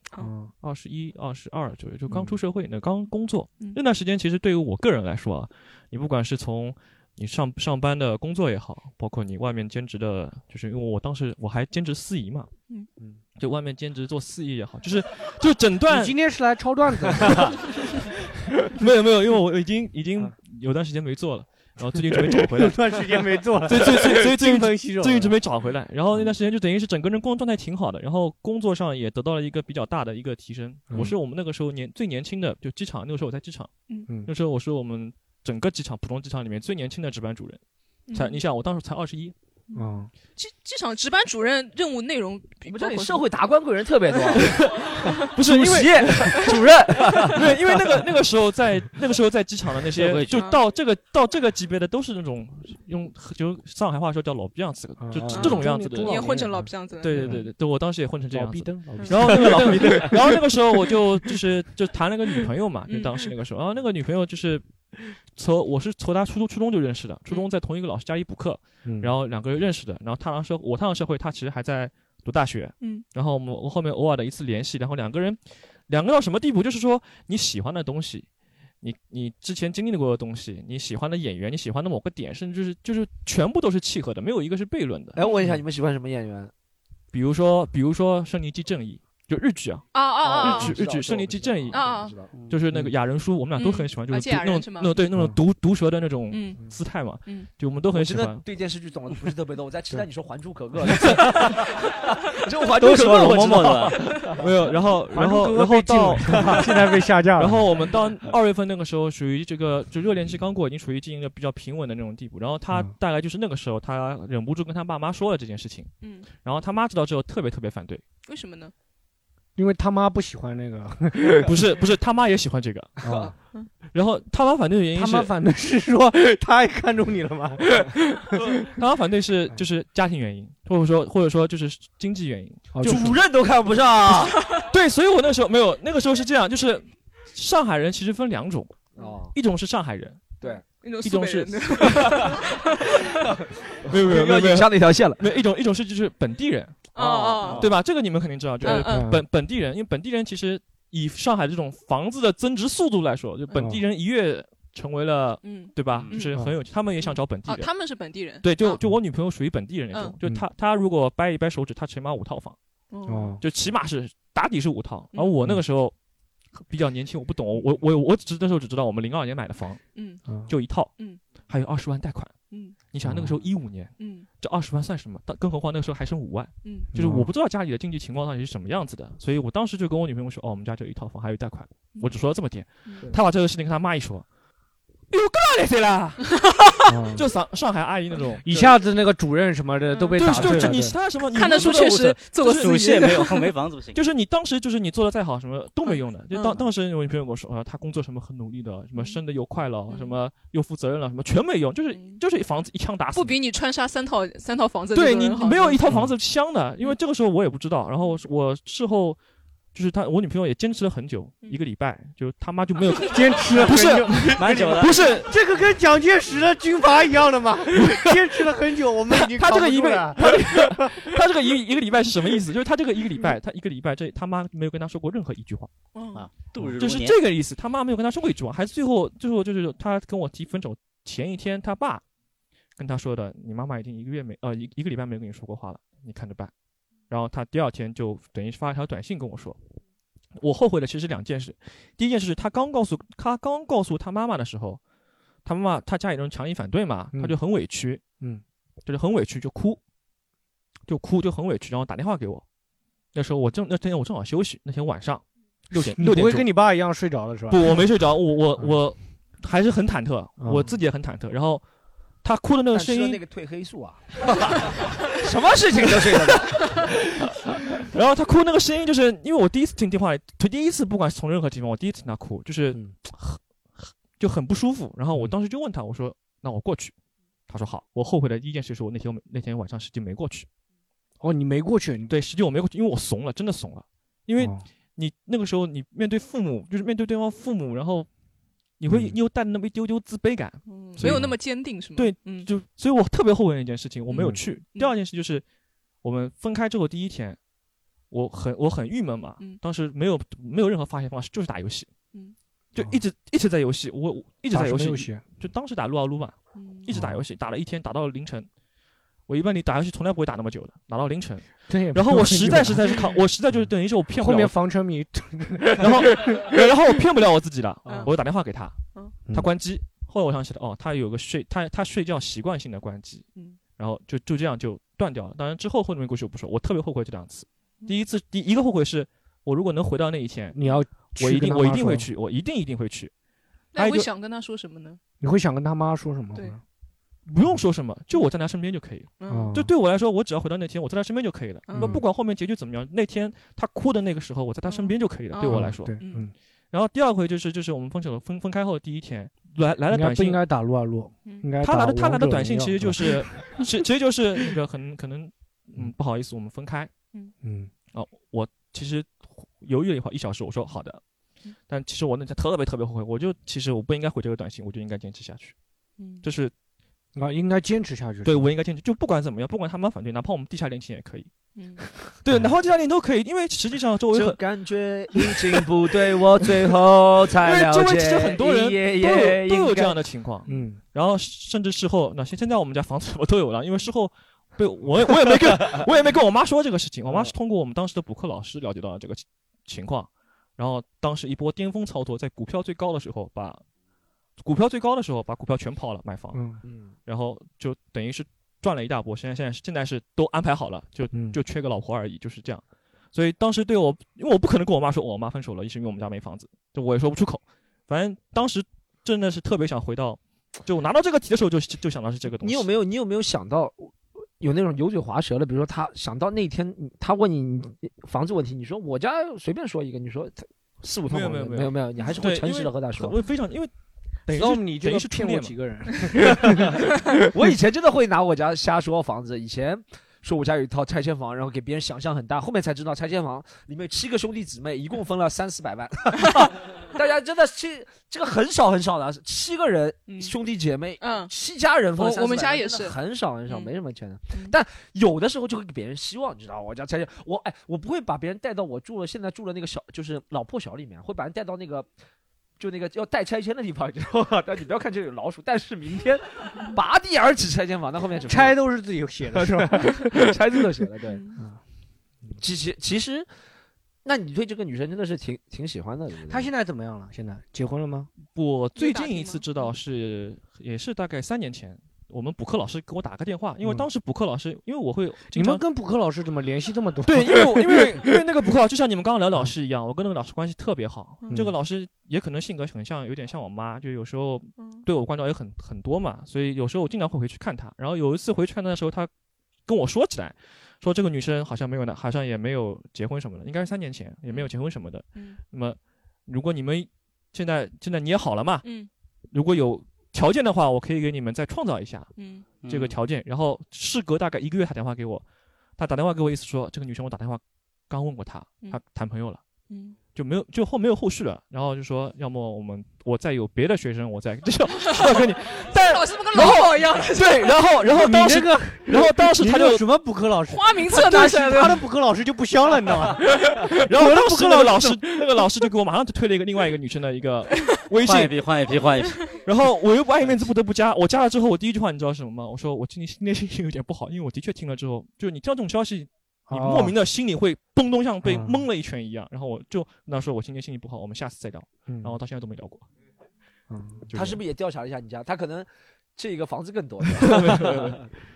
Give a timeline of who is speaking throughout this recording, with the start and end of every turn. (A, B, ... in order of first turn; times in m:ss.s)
0:00.2-0:00.5 A
0:00.5-0:12.5 B
0:02.1-0:02.4 A
0:13.4-0:16.2 B
0:15.9-0:17.5 A
0:17.1-0:17.6 B
0:18.7-0:33.7 B
0:22.1-0:25.4 A
0:30.9-0:31.1 A
0:34.2-0:37.6 B
0:38.1-0:38.4 C
0:38.1-0:39.3 B
0:39.7-0:43.2 C
0:39.7-0:40.1 A
0:42.6-0:47.7 D
0:44.5-0:46.5 B
0:47.1-0:56.3 B
0:49.9-0:50.4 E
0:50.3-0:50.6 C
0:55.0-0:57.5 A
0:55.3-0:57.4 C
0:57.0-1:04.6 B
0:58.3-1:00.1 A
1:02.9-1:03.3 C
1:05.3-1:18.3 B
1:08.8-1:09.1 A
1:12.8-1:13.1 C
1:18.8-1:25.2 B
1:25.1-1:26.5 D
1:27.1-1:31.8 B
1:29.9-1:30.7 C
1:30.2-1:32.3 D
1:31.7-1:32.2 C
1:32.3-1:32.6 E
1:32.5-1:38.4 B
1:33.5-1:35.1 C
1:36.3-1:36.7 C
1:37.2-1:37.5 C
1:37.9-1:44.4 D
1:42.8-1:44.0 E
1:44.4-1:58.0 B
1:45.1-1:47.7 A
1:56.0-1:56.3 C
1:58.2-1:58.7 C
1:59.6-2:01.5 A
2:01.4-2:03.0 B
2:03.0-2:03.3 A
2:03.0-2:03.3 D
2:03.9-2:05.3 B
2:04.9-2:08.4 A
2:08.6-2:13.2 B
2:12.7-2:13.2 A
2:12.8-2:14.4 D
2:14.3-2:14.7 C
2:14.7-2:20.3 B
2:19.0-2:19.3 D
2:20.4-2:23.3 C
2:21.0-2:22.2 B
2:21.9-2:22.3 D
2:23.9-2:26.9 B
2:23.9-2:25.3 D
2:26.9-2:27.7 C
2:27.0-2:27.6 D
2:27.4-2:27.7 E
2:27.6-2:42.6 B
2:28.6-2:29.1 C
2:28.7-2:29.2 A
2:33.5-2:33.8 A
2:35.4-2:36.3 C
2:35.9-2:36.2 E
2:37.0-2:38.8 C
2:42.9-2:43.4 C
2:43.1-2:43.4 A
2:43.4-2:45.9 B
2:46.5-3:04.2 B
2:49.9-2:50.3 C
2:51.0-2:51.2 C
2:52.5-2:52.8 C
2:53.0-2:53.4 A
2:54.0-2:54.3 C
2:56.6-2:56.9 C
2:56.9-2:57.3 A
3:02.8-3:03.1 C
3:05.1-3:06.2 B
3:06.2-3:06.7 C
3:06.9-3:07.2 A
3:07.1-3:08.8 B
3:08.4-3:11.0 A
3:09.9-3:13.4 C
3:10.2-3:13.4 B
3:12.4-3:14.0 E
3:13.9-3:23.4 B
3:15.8-3:16.6 C
3:19.9-3:20.2 C
3:21.9-3:22.2 C
3:23.1-3:25.8 C
3:24.9-3:29.2 B
3:25.9-3:26.1 A
3:29.7-3:35.4 B
3:33.1-3:41.1 A
3:34.3-3:35.0 E
3:37.7-3:38.4 B
3:39.1-3:45.7 B
3:45.9-3:46.2 C
3:46.1-3:47.2 E
3:46.8-3:52.0 B
3:52.8-3:56.5 B
3:57.1-3:59.6 B
4:00.4-4:04.8 B
4:05.4-4:08.0 B
4:08.8-4:09.8 B
4:10.9-4:12.4 B
4:13.1-4:16.5 B
4:16.0-4:17.8 A
4:17.5-4:21.6 B
4:20.4-4:20.8 A
4:22.2-4:23.2 B
4:22.7-4:26.8 D
4:25.9-4:26.9 B
4:27.8-4:36.9 B
4:37.5-4:40.5 B
4:41.2-4:42.1 A
4:42.1-4:48.1 B
4:44.4-4:44.6 A
4:48.8-4:55.4 B
4:48.9-4:49.2 A
4:50.6-4:52.5 C
4:51.0-4:51.4 A
4:54.1-4:54.4 A
4:54.1-4:54.9 C
4:56.0-4:57.4 B
4:58.1-5:01.9 B
5:02.7-5:08.5 B
5:04.5-5:05.2 A
5:06.5-5:06.9 C
5:06.9-5:07.2 A
5:09.3-5:14.5 B
5:11.7-5:16.6 A
5:15.7-5:33.1 B
5:17.8-5:18.1 C
5:23.3-5:23.6 C
5:30.5-5:32.1 A
5:33.7-5:35.0 C
5:33.8-5:34.1 B
5:35.2-5:36.6 A
5:37.3-5:46.0 B
5:39.2-5:39.6 C
5:39.3-5:39.7 A
5:41.7-5:42.0 C
5:41.7-5:42.0 A
5:44.6-5:46.3 C
5:45.4-5:46.3 A
5:46.7-5:50.4 B
5:49.9-5:53.6 A
5:51.6-5:56.9 B
5:57.4-5:57.7 A
5:57.9-6:01.0 B
6:01.7-6:05.5 B
6:06.0-6:06.2 C
6:06.2-6:06.5 B
6:07.2-6:08.4 A
6:08.2-6:11.3 B
6:11.5-6:11.8 C
6:12.0-6:14.4 B
6:14.1-6:20.0 D
6:15.3-6:15.6 B
6:17.4-6:33.6 B
6:20.5-6:20.8 A
6:34.4-6:52.7 B
6:36.3-6:36.6 A
6:36.6-6:36.9 D
6:41.1-6:41.4 A
6:52.4-7:03.2 D
7:01.1-7:03.7 B
7:04.3-7:05.6 B
7:04.3-7:06.7 A
7:07.2-7:31.9 D
7:20.1-7:20.3 C
7:21.0-7:21.3 C
7:22.0-7:23.0 C
7:23.5-7:23.7 C
7:32.6-7:38.6 D
7:38.3-7:40.2 A
7:39.3-7:41.2 D
7:41.1-7:41.4 C
7:42.4-7:43.3 D
7:44.0-7:46.5 D
7:46.3-7:48.1 A
7:48.2-7:55.6 B
7:48.8-7:49.7 C
7:53.6-7:53.9 A
7:55.3-7:58.1 A
7:57.0-8:09.1 B
8:01.3-8:01.5 A
8:04.6-8:04.9 C
8:09.7-8:18.7 B
8:15.1-8:15.4 C
8:18.6-8:18.9 C
8:19.3-8:22.1 B
8:22.1-8:22.5 C
8:22.6-8:23.0 E
8:22.6-8:25.2 B
8:25.8-8:29.4 B
8:29.7-8:30.0 C
8:30.1-8:39.8 B
8:34.9-8:37.6 C
8:37.9-8:45.4 A
8:40.5-8:41.8 C
8:43.5-8:48.3 B
8:48.0-8:49.2 E
8:49.4-9:02.9 B
8:56.5-8:56.9 A
8:58.2-8:58.6 A
9:01.9-9:02.2 A
9:03.7-9:04.1 A
9:04.1-9:04.4 B
9:04.1-9:08.0 D
9:07.2-9:08.1 B